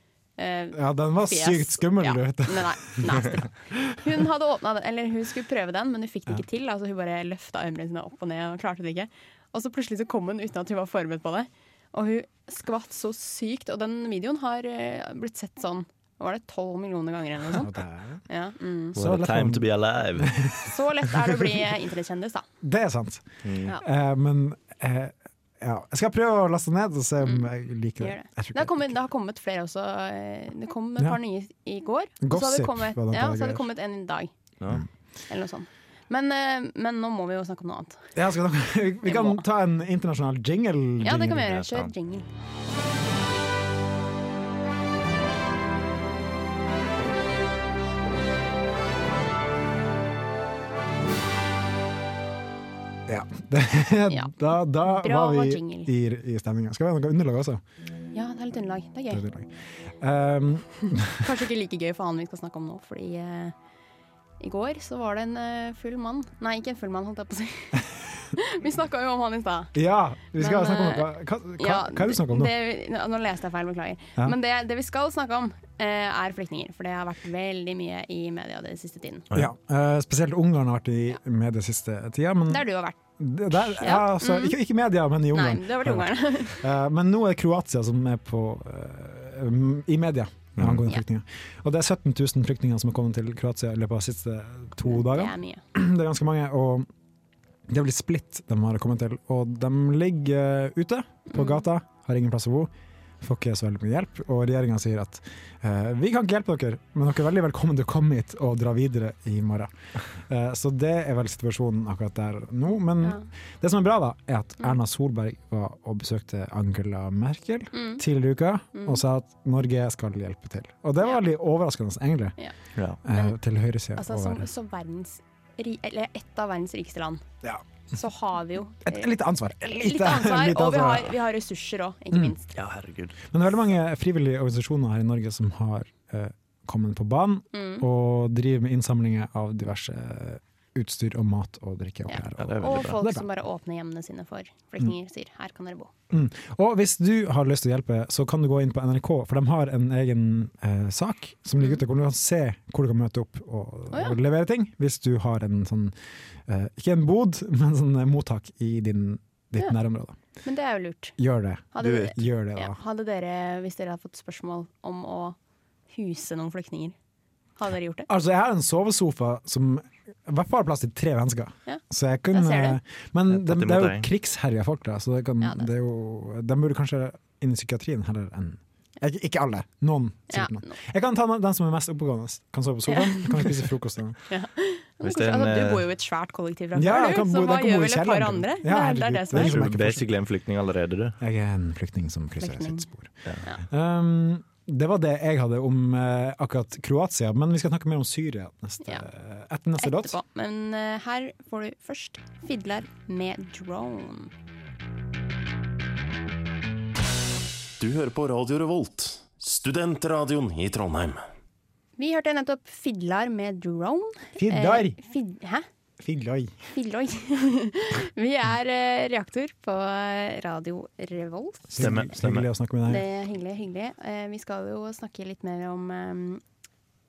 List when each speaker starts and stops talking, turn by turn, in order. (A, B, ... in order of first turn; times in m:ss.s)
0:00.4-0:17.7 A
0:00.7-0:03.2 B
0:17.5-0:18.2 B
0:18.3-0:19.0 A
0:19.0-0:20.4 C
0:19.0-0:20.6 B
0:20.6-0:22.4 A
0:22.6-0:29.0 B
0:23.4-0:23.7 C
0:27.2-0:27.5 A
0:28.0-0:34.3 A
0:32.2-0:33.6 B
0:35.3-0:38.1 A
0:38.2-0:41.6 B
0:39.0-0:39.4 A
0:41.0-0:42.3 A
0:41.5-0:41.9 C
0:53.1-0:57.6 B
0:54.1-0:55.9 A
0:58.1-0:59.2 A
0:59.1-1:01.2 B
1:01.1-1:03.6 A
1:04.4-1:09.8 A
1:09.7-1:12.5 B
1:10.4-1:19.3 A
1:19.3-1:36.9 B
1:22.5-1:23.0 A
1:23.6-1:24.6 A
1:25.3-1:26.7 A
1:30.6-1:30.8 C
1:34.8-1:35.6 A
1:37.7-2:02.4 B
1:41.3-1:41.6 A
1:57.7-1:58.0 A
1:58.7-1:59.0 A
2:03.0-2:04.5 B
2:04.0-2:07.2 A
2:07.9-2:12.5 A
2:08.8-2:11.2 B
2:12.5-2:13.1 C
2:13.3-2:23.3 B
2:17.5-2:17.8 A
2:22.1-2:25.9 A
2:22.4-2:23.0 C
2:26.1-2:36.0 B
2:33.9-2:34.2 A
2:36.5-2:40.2 B
2:40.4-2:41.2 A
2:41.2-2:42.8 B
2:41.7-2:45.4 A
2:45.9-2:47.0 A
2:47.6-2:48.1 A
2:48.1-3:04.2 B
2:51.7-2:52.8 A
2:53.3-2:54.1 C
2:55.4-2:55.7 A
3:00.3-3:00.8 A
3:02.9-3:03.6 A
3:04.3-3:09.6 A
3:05.0-3:05.9 C
3:06.8-3:10.1 B
3:09.3-3:11.2 C
3:11.2-3:13.1 B
3:12.4-3:12.9 A
3:13.6-3:20.2 B
3:19.8-3:24.3 A
3:27.8-3:31.2 D
3:32.0-3:35.7 A
3:34.4-3:35.0 B
3:36.0-3:36.6 B
3:36.7-3:41.9 A
3:41.7-3:43.1 B
3:41.8-3:42.5 C
3:42.9-3:46.4 A